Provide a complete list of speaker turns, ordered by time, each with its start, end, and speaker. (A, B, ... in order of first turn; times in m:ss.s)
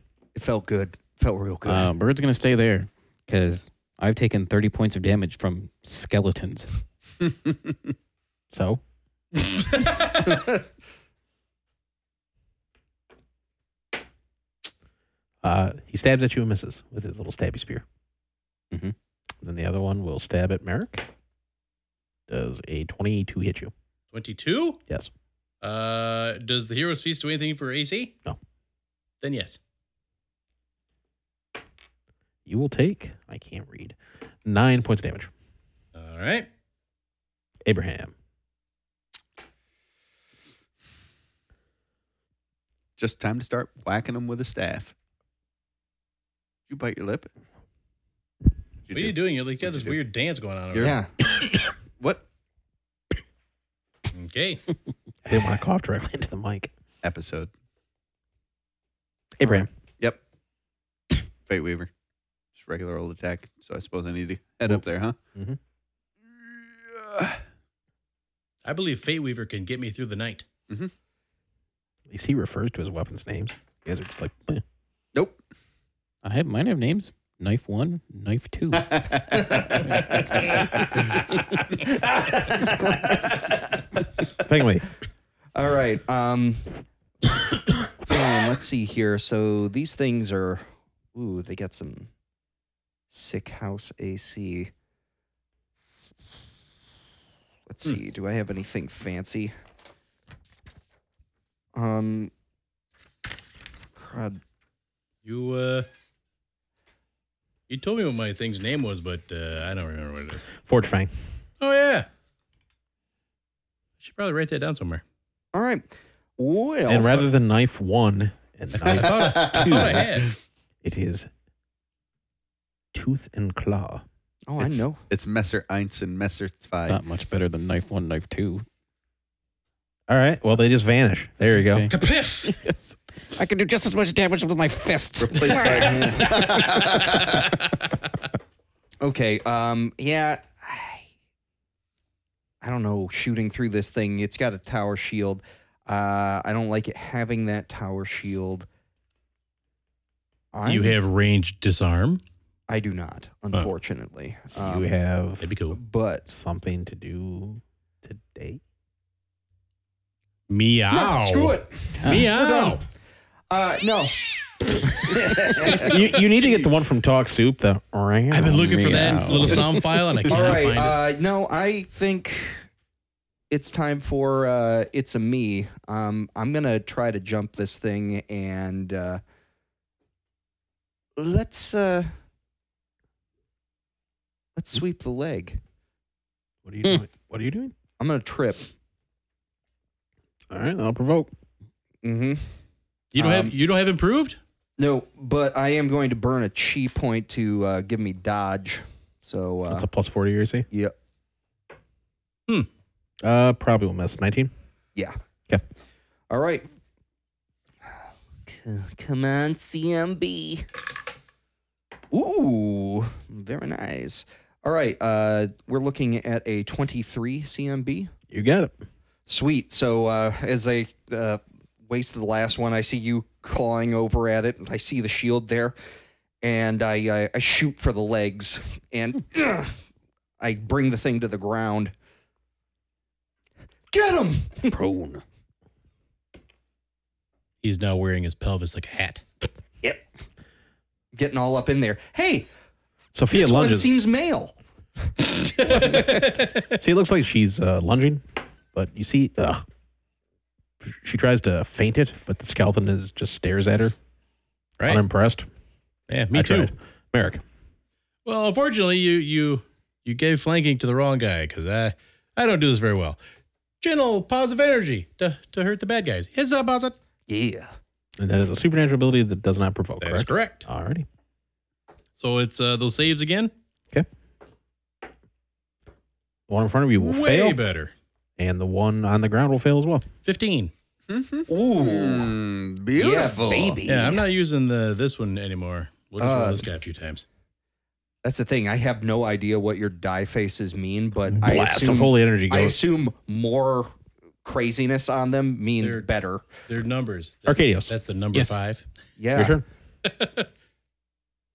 0:00.3-0:01.9 A
0:01.6-0:06.7 B
0:08.5-0:08.8 C
0:10.2-0:10.6 A
0:15.4-0:17.8 C
0:19.4-0:21.0 C
0:22.3-0:23.7 C
0:24.1-0:24.8 D
0:25.6-0:28.1 D
0:29.2-0:29.6 D
0:32.4-0:35.3 C
0:35.9-0:36.5 D
0:37.6-0:38.1 C
0:43.0-0:44.9 E
0:46.7-0:47.3 E
0:48.9-0:50.0 E
0:48.9-0:51.0 D
0:50.7-0:51.0 E
0:50.8-0:51.1 A
0:52.0-0:52.2 E
0:54.1-0:54.6 D
0:55.2-0:56.7 C
0:57.0-0:57.5 E
0:59.4-0:59.7 C
1:01.4-1:01.9 E
1:02.5-1:05.2 E
1:06.4-1:07.4 E
1:08.6-1:10.4 D
1:12.1-1:14.6 C
1:15.1-1:15.4 E
1:16.2-1:19.0 B
1:18.8-1:19.3 E
1:19.4-1:20.5 A
1:21.8-1:23.8 A
1:24.4-1:24.8 C
1:25.5-1:26.7 A
1:27.9-1:32.1 A
1:33.1-1:34.7 A
1:37.7-1:39.5 A
1:41.7-1:42.3 A
1:44.0-1:44.4 A
1:45.2-1:45.9 D
1:47.7-1:50.4 D
1:50.6-1:51.1 C
1:51.6-1:52.1 D
1:54.0-1:55.0 D
1:55.5-1:55.9 A
1:56.4-1:57.2 A
1:56.9-2:00.1 C
1:58.8-2:00.3 E
1:58.9-2:00.3 D
2:00.8-2:01.3 C
2:02.9-2:04.0 C
2:04.5-2:05.0 A
2:05.1-2:07.0 E
2:06.8-2:08.6 B
2:10.1-2:11.9 C
2:11.6-2:12.8 B
2:11.9-2:12.5 D
2:13.3-2:17.2 B
2:15.2-2:17.4 E
2:15.6-2:16.6 A
2:19.0-2:21.0 A
2:22.6-2:28.7 A
2:30.5-2:31.0 A
2:30.6-2:32.2 D
2:32.7-2:34.9 A
2:34.6-2:35.5 C
2:35.4-2:35.8 D
2:35.7-2:36.2 A
2:36.3-2:38.6 C
2:40.5-2:42.8 D
2:40.9-2:42.9 A
2:42.0-2:42.3 B
2:43.5-2:46.0 A
2:45.7-2:48.8 C
2:48.3-2:51.0 D
2:48.4-2:50.0 B
2:50.3-2:52.6 A
2:53.5-2:59.2 A
3:01.2-3:02.1 A
3:04.6-3:05.6 A
3:06.6-3:07.7 C
3:08.0-3:08.7 A
3:10.5-3:11.3 C
3:12.0-3:12.5 A
3:13.1-3:14.4 D
3:13.2-3:13.5 A
3:14.8-3:19.9 A
3:19.7-3:20.7 C
3:23.2-3:24.5 C
3:26.3-3:26.7 A
3:28.4-3:30.6 A
3:32.1-3:38.1 A
3:38.3-3:38.7 C
3:39.3-3:45.7 A
3:46.4-3:49.7 A
3:50.4-3:51.9 A
3:53.9-3:54.7 A
3:54.7-3:55.2 B
3:57.6-3:59.2 D
4:01.1-4:02.5 A
4:03.1-4:03.9 C
4:03.3-4:04.6 A
4:05.4-4:06.7 D
4:06.7-4:09.6 C
4:10.8-4:13.9 C
4:14.8-4:15.5 C
4:16.1-4:16.7 D
4:16.3-4:17.4 C
4:18.2-4:23.2 D
4:23.8-4:26.9 D
4:27.3-4:27.7 A
4:28.2-4:31.0 C
4:30.0-4:30.6 D
4:32.2-4:33.5 D
4:36.5-4:37.6 C
4:37.0-4:37.9 D
4:38.4-4:40.0 C
4:40.2-4:40.7 D
4:41.1-4:43.8 E
4:41.5-4:42.3 A
4:43.0-4:44.2 A
4:43.9-4:47.2 D
4:46.2-4:46.6 A
4:48.2-4:53.9 A
4:51.4-4:52.8 C
4:54.4-4:56.5 A
4:55.8-4:56.1 D
4:56.6-4:58.8 D
4:57.4-4:58.5 C
4:59.2-4:59.6 A
4:59.3-4:59.6 C
5:00.0-5:00.5 D